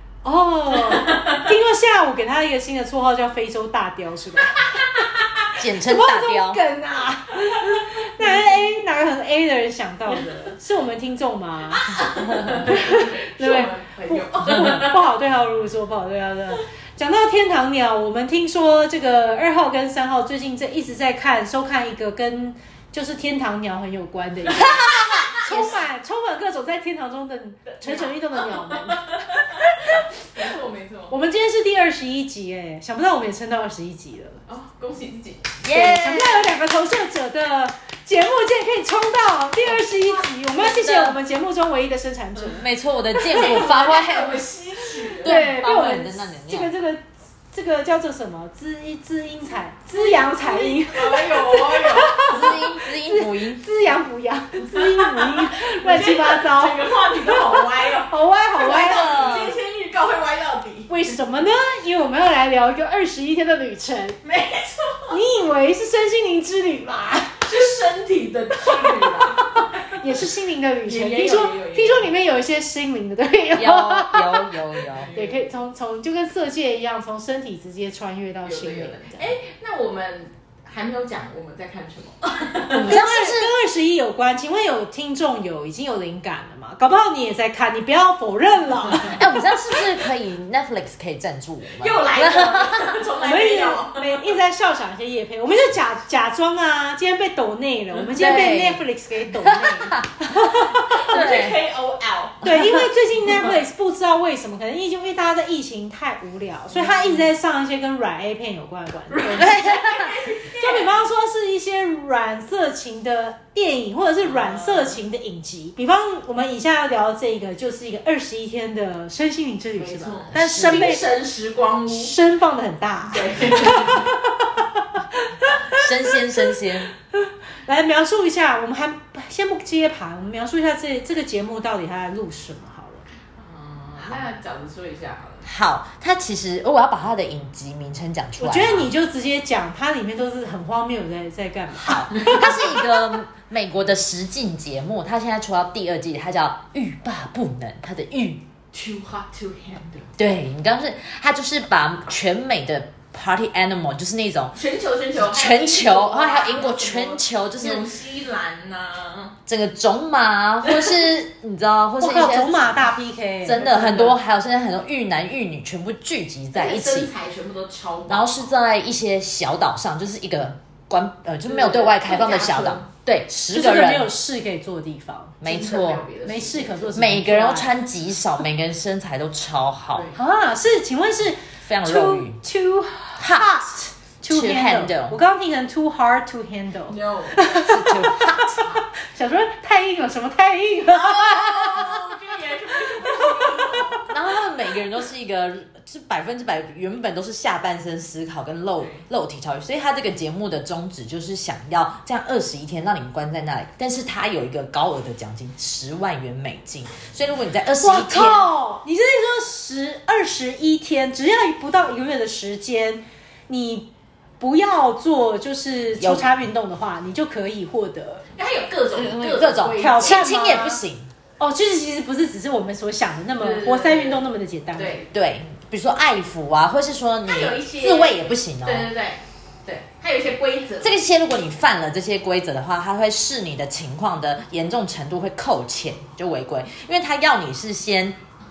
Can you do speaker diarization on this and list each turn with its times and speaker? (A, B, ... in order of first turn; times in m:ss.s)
0:00.2-0:04.9 A
0:00.7-0:01.5 B
0:04.6-0:05.5 B
0:05.6-0:06.6 C
0:05.8-0:12.0 A
0:07.6-0:08.4 B
0:11.7-0:15.1 B
0:12.6-0:30.0 A
0:24.5-0:25.8 C
0:27.7-0:31.2 B
0:31.1-0:34.4 A
0:34.5-0:35.6 B
0:35.6-0:36.6 C
0:35.7-0:43.6 A
0:40.6-0:41.2 C
0:42.5-0:44.4 C
0:43.3-0:45.4 B
0:45.2-0:46.7 C
0:45.2-0:59.4 A
0:49.9-0:52.3 B
0:52.2-0:53.6 C
0:54.7-1:01.2 B
0:58.6-0:59.6 C
1:00.9-1:04.2 A
1:04.2-1:05.2 B
1:05.1-1:07.5 A
1:07.4-1:10.0 B
1:08.6-1:19.3 A
1:10.8-1:12.1 B
1:13.5-1:15.1 C
1:14.9-1:15.4 B
1:18.4-1:22.9 B
1:22.7-1:23.5 C
1:22.7-1:29.3 A
1:29.0-1:33.0 C
1:31.7-1:34.3 B
1:33.2-1:41.2 A
1:37.9-1:41.6 C
1:40.9-1:42.4 B
1:42.4-2:01.1 A
1:42.4-1:43.4 C
1:46.8-1:47.1 B
1:49.1-1:50.9 B
1:49.3-1:50.2 C
1:54.2-1:55.0 B
1:59.8-2:02.1 B
2:00.3-2:01.0 C
2:01.9-2:13.0 A
2:03.1-2:04.1 B
2:05.7-2:06.9 C
2:13.4-2:15.5 B
2:15.4-2:18.9 C
2:18.4-2:22.8 A
2:21.8-2:28.4 C
2:28.7-2:30.1 B
2:30.2-2:34.6 C
2:34.5-2:39.4 B
2:35.1-2:37.8 C
2:39.4-2:42.9 C
2:40.7-2:40.9 B
2:42.0-2:44.2 A
2:43.4-2:47.1 C
2:46.5-2:48.5 B
2:48.1-2:54.1 C
2:51.4-2:52.9 B
2:53.5-2:55.4 A
2:55.4-2:56.0 C
2:55.4-2:57.0 B
2:56.2-2:57.7 A
2:56.9-3:00.1 C
2:59.9-3:00.2 B
3:00.2-3:12.0 A
3:01.6-3:02.4 C
3:03.2-3:03.6 C
3:04.3-3:05.2 C
3:06.9-3:07.7 B
3:07.6-3:08.6 C
3:11.0-3:12.0 C
3:11.4-3:14.1 B
3:13.0-3:14.0 A
3:14.1-3:28.5 C
3:27.8-3:38.2 A
3:36.0-3:36.3 C
3:38.4-3:40.4 B
3:38.9-3:41.1 C
3:39.8-3:40.8 A
3:41.4-3:44.9 A
3:43.4-3:44.2 B
3:44.7-3:45.1 B
3:45.1-3:48.9 C
3:47.2-3:50.9 B
3:50.8-3:58.2 C